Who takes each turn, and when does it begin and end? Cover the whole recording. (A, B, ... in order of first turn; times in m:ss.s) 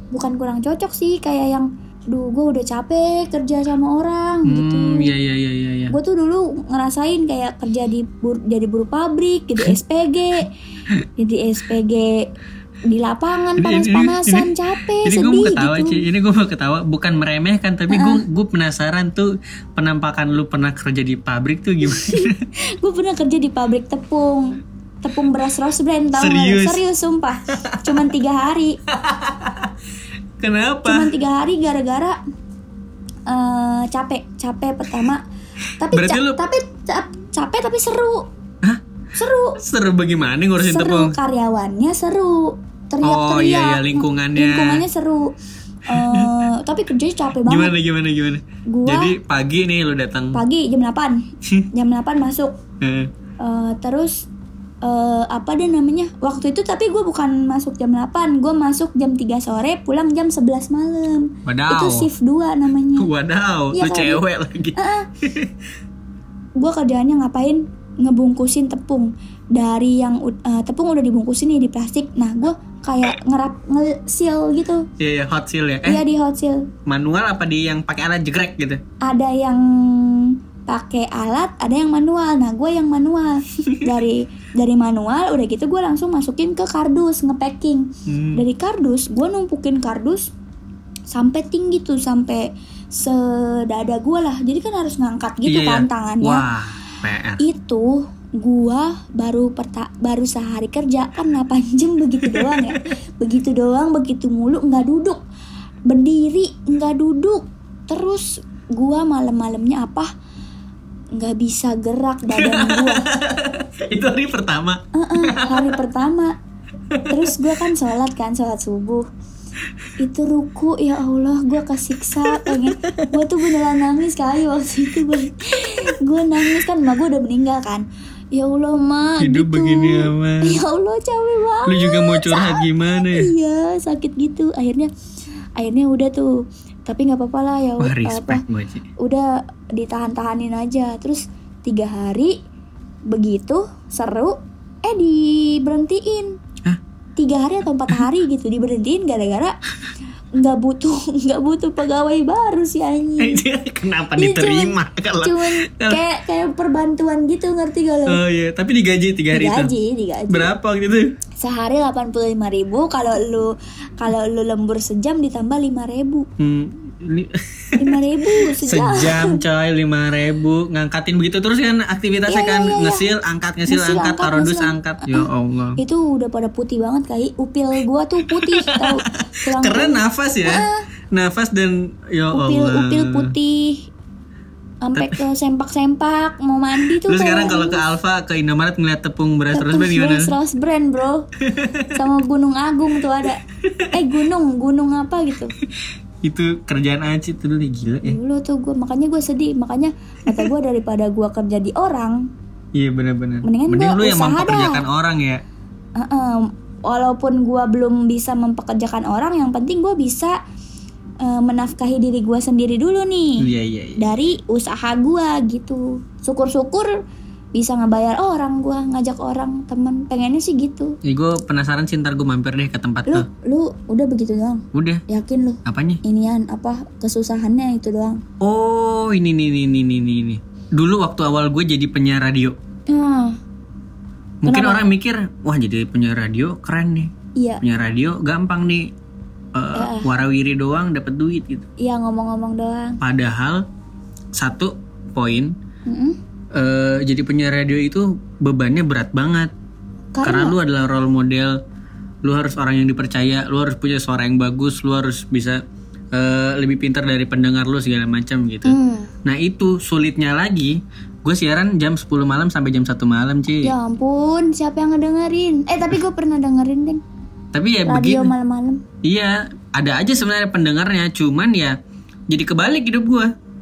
0:00.1-0:05.1 A
0:04.5-0:06.0 B
0:05.9-0:10.5 A
0:11.2-0:12.2 A
0:12.9-0:16.0 A
0:13.6-0:22.4 B
0:17.9-0:18.2 A
0:21.8-0:28.8 A
0:26.2-0:26.8 B
0:27.5-0:28.1 B
0:28.9-0:29.7 B
0:30.4-0:31.1 B
0:30.8-0:32.2 A
0:33.3-0:35.2 A
0:35.8-0:38.3 A
0:35.9-0:36.4 B
0:39.2-0:39.6 A
0:39.6-0:41.2 B
0:40.6-0:45.3 A
0:43.0-0:44.8 B
0:45.9-0:47.7 A
0:45.9-0:46.5 B
0:47.5-0:50.4 B
0:48.7-0:49.1 A
0:50.3-0:51.2 A
0:51.7-0:52.6 A
0:52.8-0:53.1 B
0:53.4-0:54.3 A
0:54.8-1:03.1 A
1:01.5-1:02.1 B
1:03.0-1:05.5 B
1:03.7-1:04.2 A
1:04.8-1:05.1 A
1:06.6-1:14.9 A
1:15.0-1:16.0 B
1:15.8-1:16.7 A
1:16.9-1:18.8 B
1:19.0-1:30.3 A
1:28.1-1:28.4 B
1:31.1-1:36.4 A
1:35.5-1:37.4 B
1:37.4-1:45.2 A
1:42.2-1:42.7 B
1:45.9-1:50.1 A
1:51.2-1:53.1 A
1:52.3-1:55.8 B
1:54.9-1:56.3 A
1:56.9-1:57.5 B
1:57.1-1:59.1 A
2:00.0-2:14.9 A
2:02.1-2:03.6 B
2:05.0-2:06.7 B
2:09.2-2:10.6 B
2:11.7-2:13.3 B
2:15.6-2:16.3 A
2:16.9-2:18.4 A
2:17.8-2:18.9 B
2:19.0-2:22.4 A
2:23.1-2:26.3 A
2:27.2-2:29.6 A
2:30.4-2:33.4 A
2:33.2-2:36.0 B
2:34.2-2:38.2 A
2:38.1-2:39.7 B
2:39.3-2:40.5 A
2:40.3-2:41.1 B
2:41.4-2:46.3 A
2:46.4-2:55.8 B
2:47.8-2:49.4 A
2:52.3-2:53.1 A
2:53.7-3:00.8 A
2:58.2-3:03.3 B
3:02.3-3:03.8 A
3:04.8-3:07.8 A
3:06.8-3:10.3 B
3:09.5-3:11.2 A
3:11.4-3:11.9 B
3:11.9-3:13.4 A
3:13.6-3:14.0 B
3:13.9-3:15.5 A
3:16.2-3:18.2 B
3:18.0-3:22.2 A
3:20.3-3:20.5 B
3:22.8-3:25.4 B
3:23.4-3:24.8 A
3:26.0-3:30.4 A
3:31.2-3:33.5 A
3:33.4-3:34.1 B
3:34.0-3:36.9 A
3:37.6-3:41.0 A
3:41.0-3:43.3 B
3:43.1-3:48.2 A
3:44.7-3:45.0 B
3:45.6-3:46.0 B
3:48.4-3:52.6 B
3:52.9-3:53.4 A
3:54.4-3:57.1 B
3:54.4-3:54.9 A
3:57.4-3:57.6 A
3:57.6-3:58.9 B
3:59.5-4:01.6 B
3:59.7-4:00.1 A
4:01.8-4:03.0 A
4:03.0-4:03.6 B
4:04.4-4:05.5 B
4:05.9-4:06.2 A
4:06.5-4:09.5 B
4:10.2-4:10.6 A
4:10.2-4:11.6 B
4:12.2-4:15.6 B
4:16.1-4:23.7 B
4:18.6-4:19.1 A
4:23.6-4:27.0 A
4:27.5-4:28.3 B
4:27.9-4:28.8 A
4:29.0-4:31.8 B
4:32.3-4:33.3 B